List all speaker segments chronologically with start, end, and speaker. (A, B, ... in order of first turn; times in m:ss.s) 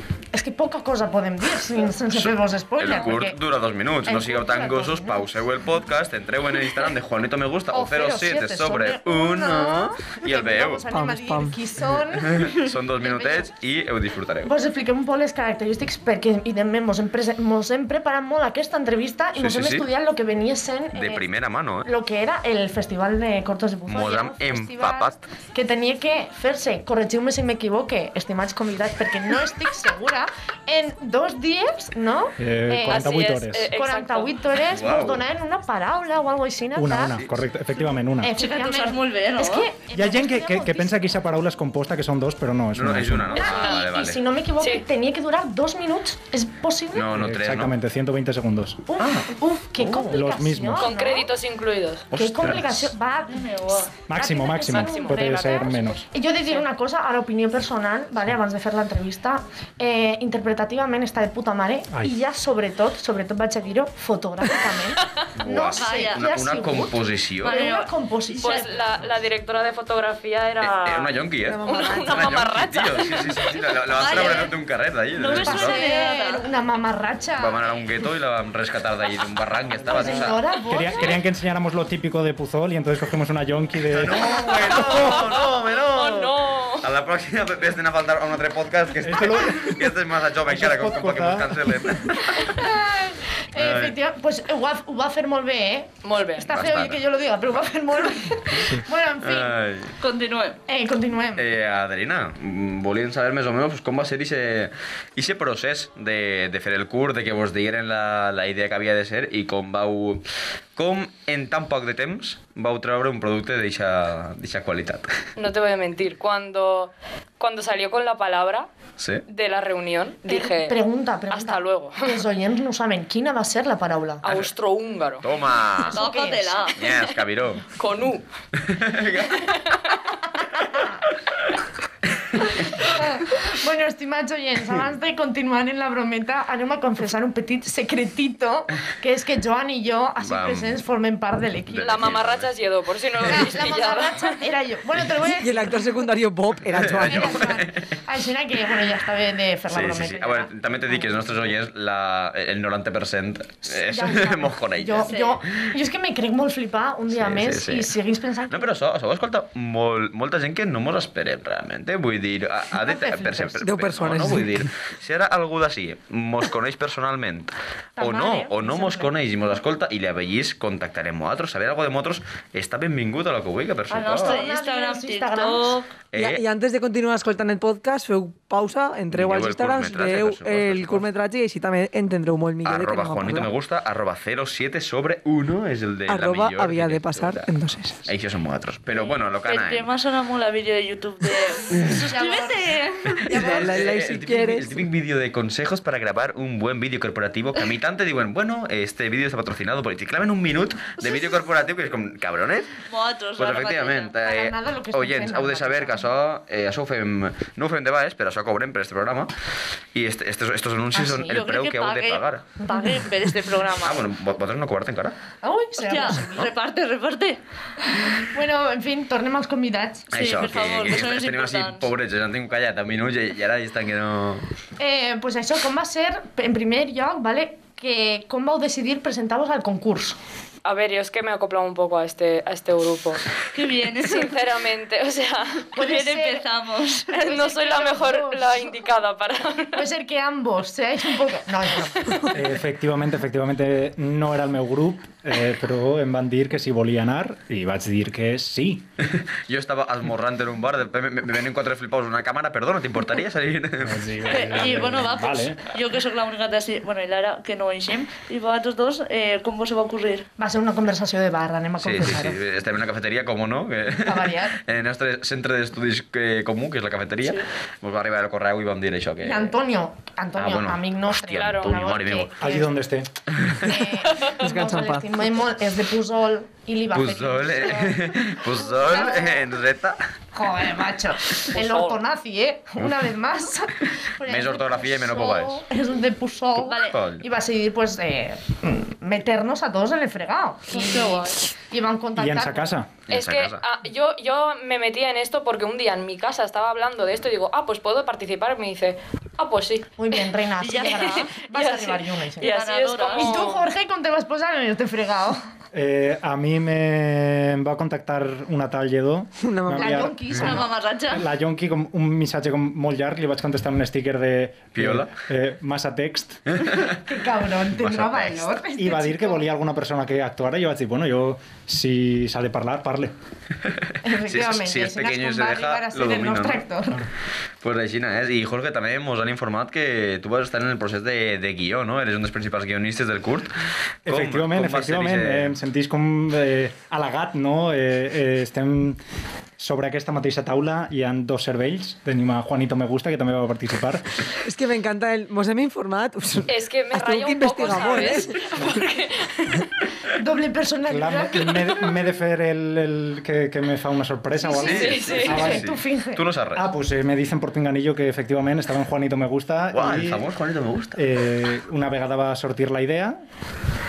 0:00.3-0:03.4 A
0:02.1-0:10.8 B
0:04.1-0:05.3 A
0:07.7-0:13.5 A
0:10.9-0:11.6 C
0:12.2-0:14.5 B
0:14.4-0:21.3 A
0:19.4-0:19.8 B
0:20.9-0:21.9 B
0:21.8-0:33.2 A
0:23.9-0:25.2 B
0:32.4-0:33.7 D
0:32.9-0:34.4 E
0:33.7-0:37.2 A
0:34.7-0:35.2 B
0:36.8-0:38.3 D
0:38.2-0:41.1 A
0:38.4-0:39.7 F
0:39.9-0:43.5 D
0:42.7-0:44.2 B
0:43.4-0:43.9 E
0:43.4-0:47.1 A
0:46.9-0:47.7 B
0:47.1-0:48.8 D
0:48.9-0:51.3 A
0:49.8-0:50.1 B
0:49.8-0:50.9 D
0:50.8-0:52.1 E
0:52.1-0:52.9 B
0:52.1-0:53.5 A
0:53.3-0:53.9 F
0:54.1-0:56.0 D
0:54.1-1:08.8 A
0:54.6-0:55.7 E
1:05.4-1:07.6 B
1:05.7-1:06.2 F
1:07.4-1:08.8 F
1:08.4-1:13.6 E
1:10.6-1:15.8 B
1:11.5-1:12.2 C
1:13.9-1:14.5 F
1:15.2-1:16.5 F
1:15.3-1:17.7 A
1:17.4-1:20.4 B
1:19.8-1:21.2 A
1:19.9-1:25.1 D
1:23.9-1:32.7 B
1:24.9-1:26.9 E
1:29.0-1:32.1 D
1:32.4-1:39.6 A
1:33.6-1:34.0 B
1:36.0-1:36.6 E
1:36.5-1:37.0 B
1:39.2-1:40.0 B
1:40.0-1:40.6 F
1:40.7-1:41.4 A
1:41.4-1:50.2 B
1:50.8-1:55.1 B
1:55.4-1:58.7 E
1:59.0-1:59.2 B
1:59.3-2:00.8 E
2:00.3-2:04.3 A
2:01.3-2:02.2 E
2:04.2-2:05.3 E
2:05.2-2:06.0 B
2:05.9-2:06.7 A
2:05.9-2:06.8 F
2:06.8-2:07.7 B
2:07.7-2:08.2 E
2:08.6-2:09.6 B
2:09.4-2:10.0 E
2:10.8-2:11.4 B
2:12.2-2:13.0 B
2:12.8-2:22.2 A
2:20.2-2:20.8 B
2:21.7-2:22.5 B
2:21.8-2:24.4 E
2:23.2-2:25.9 A
2:25.4-2:27.5 C
2:26.7-2:27.9 B
2:27.0-2:31.4 A
2:29.7-2:35.1 B
2:33.7-2:38.7 A
2:35.1-2:35.4 F
2:37.1-2:37.9 B
2:38.5-2:54.4 B
2:42.8-2:43.6 A
2:43.6-2:44.6 C
2:48.0-2:49.2 A
2:53.9-2:55.9 F
2:54.1-2:55.8 A
2:56.1-2:56.4 B
2:56.2-3:03.5 C
2:59.1-3:01.1 B
3:02.6-3:07.5 B
3:06.1-3:08.1 C
3:08.1-3:09.8 B
3:09.0-3:13.4 F
3:11.8-3:12.0 B
3:11.8-3:13.6 A
3:13.2-3:22.8 B
3:13.3-3:14.8 C
3:22.9-3:24.2 F
3:23.4-3:29.3 B
3:24.2-3:26.1 A
3:29.9-3:32.5 B
3:30.9-3:31.4 A
3:31.3-3:34.0 F
3:32.6-3:33.0 A
3:33.8-3:35.2 B
3:35.4-3:36.5 A
3:35.8-3:37.4 F
3:38.2-3:40.1 A
3:40.1-3:41.9 F
3:40.1-3:44.5 B
3:44.8-3:50.2 A
3:50.6-3:53.2 E
3:53.5-3:54.4 F
3:54.0-3:55.7 E
3:55.7-3:56.5 A
3:55.8-3:57.1 F
3:57.1-3:58.9 A
3:57.1-3:59.8 E
3:59.7-4:02.3 A
4:02.3-4:08.9 D
4:09.0-4:15.0 B
4:13.8-4:15.6 D
4:14.3-4:20.3 F
4:20.4-4:22.4 A
4:21.8-4:29.5 B
4:24.0-4:24.6 A
4:29.2-4:32.7 A
4:30.4-4:32.4 B
4:31.4-4:31.8 E
4:32.4-4:33.2 D
4:33.4-4:33.8 B
4:33.6-4:39.5 A
4:34.4-4:35.2 C
4:36.9-4:40.0 B
4:40.3-4:52.8 A
4:41.5-4:42.0 E
4:44.2-4:45.6 B
4:46.7-4:47.0 F
4:46.7-4:47.2 B
4:50.8-4:51.3 F
4:50.8-4:51.3 E
4:52.2-4:52.9 D
4:53.1-4:53.6 B
4:53.1-4:59.9 E
5:00.0-5:02.5 A
5:00.6-5:01.3 F
5:01.4-5:03.7 E
5:02.4-5:03.5 F
5:03.1-5:05.4 A
5:05.7-5:16.4 D
5:09.4-5:10.2 C
5:09.8-5:10.7 A
5:10.4-5:11.3 F
5:14.8-5:15.1 B
5:16.5-5:17.0 B
5:16.8-5:19.5 A
5:17.7-5:18.5 B
5:18.8-5:23.1 D
5:23.6-5:26.6 B
5:24.0-5:27.1 A
5:27.6-5:33.5 B
5:34.1-5:35.5 B
5:34.1-5:39.0 D
5:39.6-5:44.2 D
5:44.4-5:48.7 C
5:46.5-5:49.7 E
5:50.1-5:51.8 A
5:50.9-5:55.7 D
5:54.4-5:56.3 A
5:54.6-5:56.7 B
5:54.6-5:55.4 E
5:56.5-6:00.3 D
5:59.7-6:01.0 B
6:01.0-6:03.2 D